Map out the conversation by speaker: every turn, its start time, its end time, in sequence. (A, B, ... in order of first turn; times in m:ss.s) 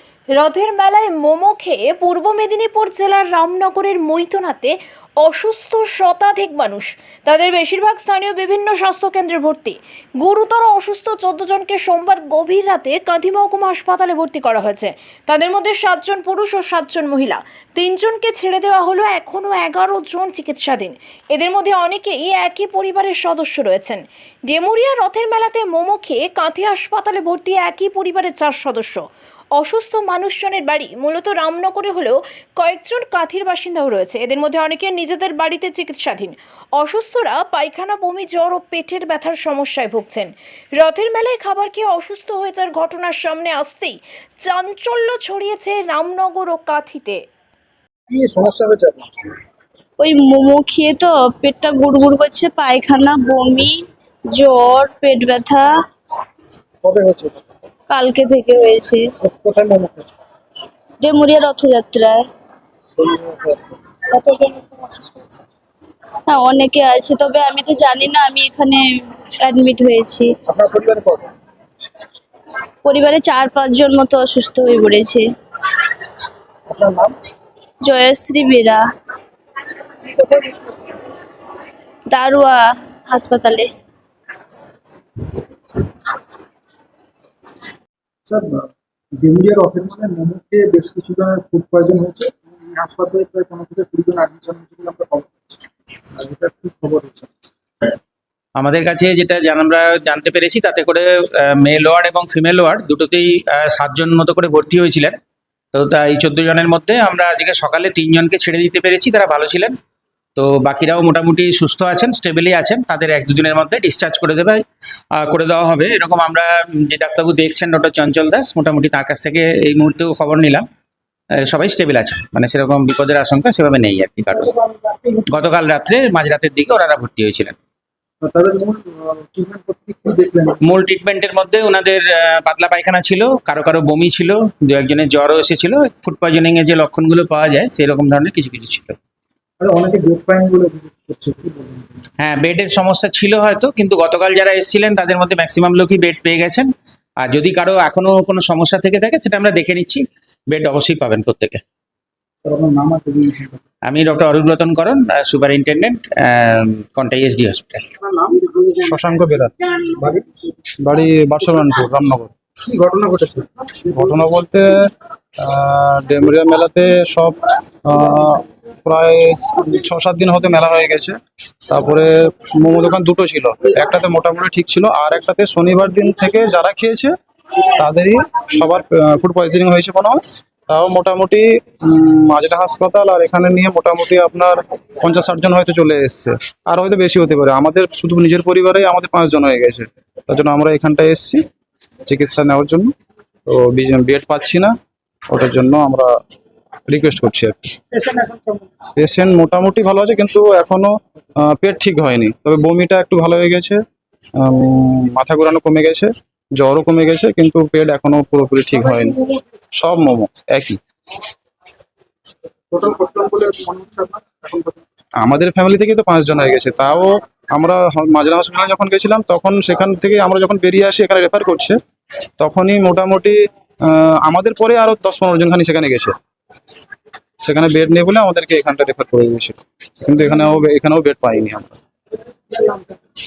0:00.3-0:29.0 A
0:29.5-0:47.2 A
0:48.1-0:49.1 B
0:50.0-0:55.7 C
0:56.8-0:57.4 B
0:57.9-0:59.1 C
0:59.2-1:00.1 B
1:01.0-1:02.3 C
1:03.0-1:05.4 B
1:06.3-1:10.3 C
1:10.5-1:11.3 B
1:12.8-1:15.3 C
1:16.7-1:17.1 B
1:17.9-1:18.9 C
1:20.0-1:20.7 B
1:22.1-1:23.7 C
1:28.3-1:35.6 B
1:36.1-1:37.3 B
1:38.6-1:45.2 D
1:45.7-1:49.8 D
1:50.4-1:54.6 D
1:55.2-2:00.6 D
2:01.4-2:04.5 D
2:05.3-2:07.6 D
2:08.2-2:10.6 B
2:10.6-2:19.0 D
2:19.6-2:22.0 B
2:22.2-2:31.6 D
2:32.4-2:33.6 B
2:33.8-2:37.8 D
2:38.0-2:38.9 B
2:38.8-2:39.5 E
2:39.8-2:40.2 B
2:40.8-2:42.3 E
2:42.6-2:43.9 B
2:43.9-2:44.9 E
2:45.4-2:51.2 E
2:51.7-2:57.1 E
2:57.8-3:11.4 E
3:12.1-3:12.9 E
3:13.5-3:14.7 E
3:15.3-3:16.1 E
3:16.9-3:17.6 E
3:17.9-3:18.6 B
3:19.0-3:23.8 E
3:24.4-3:29.2 E
3:29.8-3:30.8 E
3:32.7-3:34.8 B
3:35.2-3:41.8 E
3:42.4-3:46.1 E
3:47.4-3:51.8 E
3:52.5-3:52.8 B